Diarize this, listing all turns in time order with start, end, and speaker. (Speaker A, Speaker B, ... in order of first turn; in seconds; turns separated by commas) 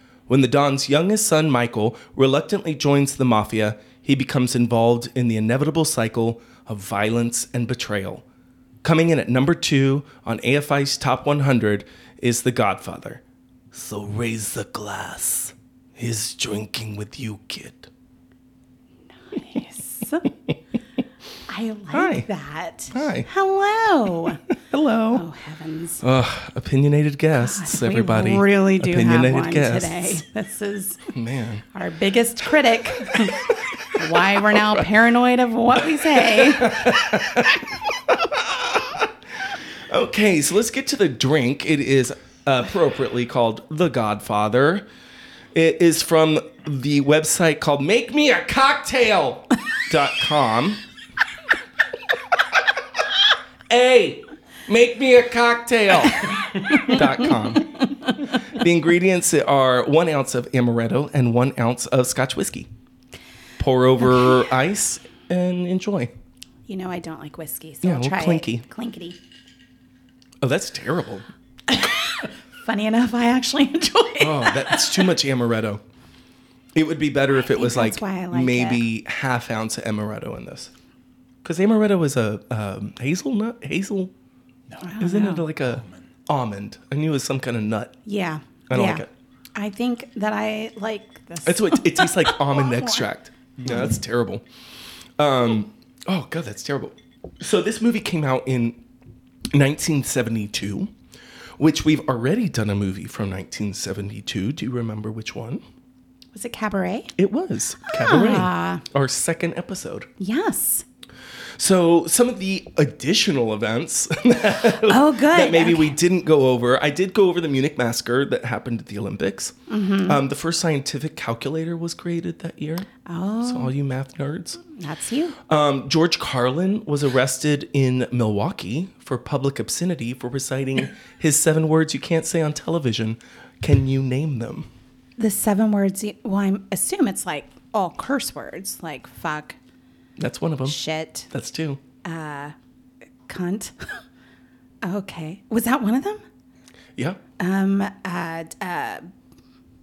Speaker A: 0.3-8.2, Speaker A: 8.8-17.9, Speaker B: 19.3-20.3, Speaker B: 21.5-24.4, Speaker A: 21.9-22.3, Speaker A: 22.9-23.3, Speaker A: 24.7-25.2, Speaker B: 25.1-26.0, Speaker A: 26.0-30.2, Speaker B: 27.4-31.1, Speaker A: 31.1-31.6, Speaker B: 31.7-37.2, Speaker A: 33.1-34.0, Speaker A: 36.2-39.1, Speaker A: 39.9-44.8, Speaker A: 45.5-50.8, Speaker A: 53.7-57.7, Speaker B: 56.7-57.6, Speaker A: 58.2-62.7, Speaker A: 63.6-66.1, Speaker B: 64.1-64.5, Speaker B: 66.7-69.2, Speaker A: 67.8-68.6, Speaker A: 70.4-71.3, Speaker B: 71.7-75.1, Speaker A: 74.2-75.8, Speaker A: 76.8-80.7, Speaker B: 77.4-78.8, Speaker A: 81.4-84.1, Speaker B: 84.8-85.4, Speaker A: 85.0-87.9, Speaker B: 88.0-89.0, Speaker A: 88.7-89.1, Speaker B: 89.5-93.0, Speaker A: 91.4-94.4, Speaker B: 93.6-94.0, Speaker A: 95.2-98.8, Speaker A: 99.5-100.9, Speaker A: 101.6-105.6, Speaker B: 106.3-107.1, Speaker A: 107.2-110.1, Speaker B: 107.8-108.8, Speaker B: 110.2-110.8, Speaker A: 111.6-119.5, Speaker B: 114.7-116.0, Speaker B: 119.7-120.2, Speaker A: 120.0-122.9, Speaker B: 123.0-123.7, Speaker A: 123.4-124.6, Speaker B: 124.7-125.3, Speaker A: 125.5-134.7, Speaker B: 135.2-139.6, Speaker A: 140.2-140.8, Speaker B: 140.7-141.3, Speaker A: 141.3-141.8, Speaker B: 142.0-142.5, Speaker B: 143.3-144.0, Speaker B: 144.8-146.2, Speaker B: 147.4-149.1